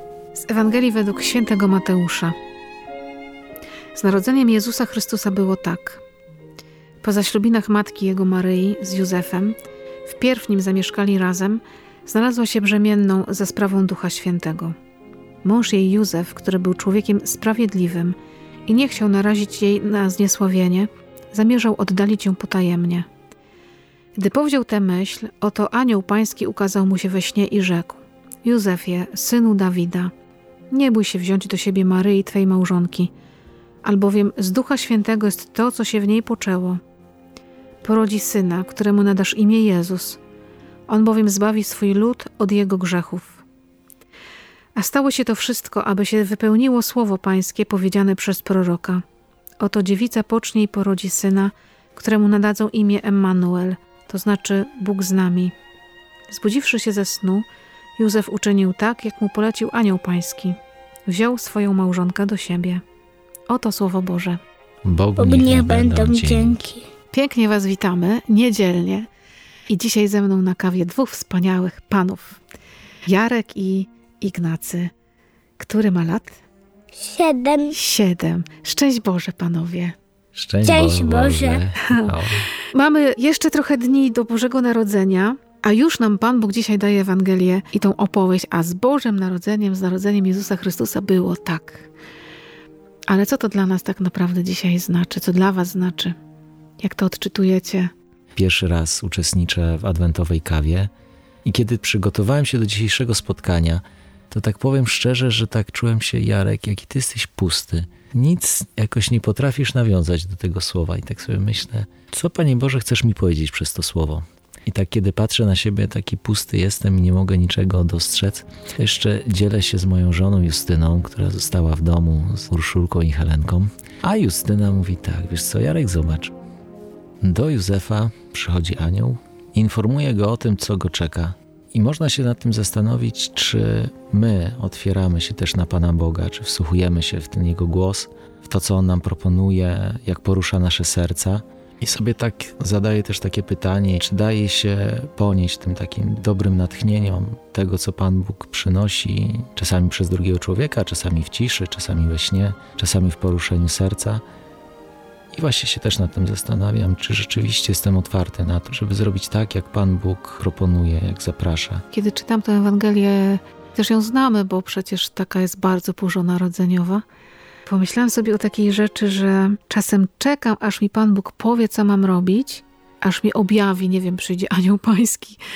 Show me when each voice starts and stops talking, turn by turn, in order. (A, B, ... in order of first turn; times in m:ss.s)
0:00.4-0:02.3 A
0:03.9-0:06.0 A
0:07.0-0:14.7 A
0:15.4-0:23.1 A
0:24.2-0:30.1 A
0:30.7-0:33.1 A
0:33.8-0:36.8 A
0:37.8-0:40.2 A
0:40.9-0:43.4 A
0:44.7-0:49.0 A
0:49.6-0:55.5 A
0:56.3-0:57.4 A
0:58.0-1:02.8 A
1:03.5-1:04.4 A
1:04.8-1:06.6 B
1:05.2-1:06.9 C
1:07.1-1:09.1 A
1:09.7-1:12.4 A
1:13.0-1:14.9 A
1:15.6-1:16.4 A
1:16.9-1:17.7 C
1:17.7-1:20.0 A
1:20.3-1:22.5 B
1:20.6-1:21.6 C
1:22.7-1:31.9 A
1:33.1-1:36.2 A
1:36.8-1:37.9 A
1:38.3-1:40.9 B
1:41.4-2:06.3 B
2:07.2-2:34.2 B
2:35.3-2:41.8 B
2:41.9-2:47.0 A
2:47.6-2:55.4 A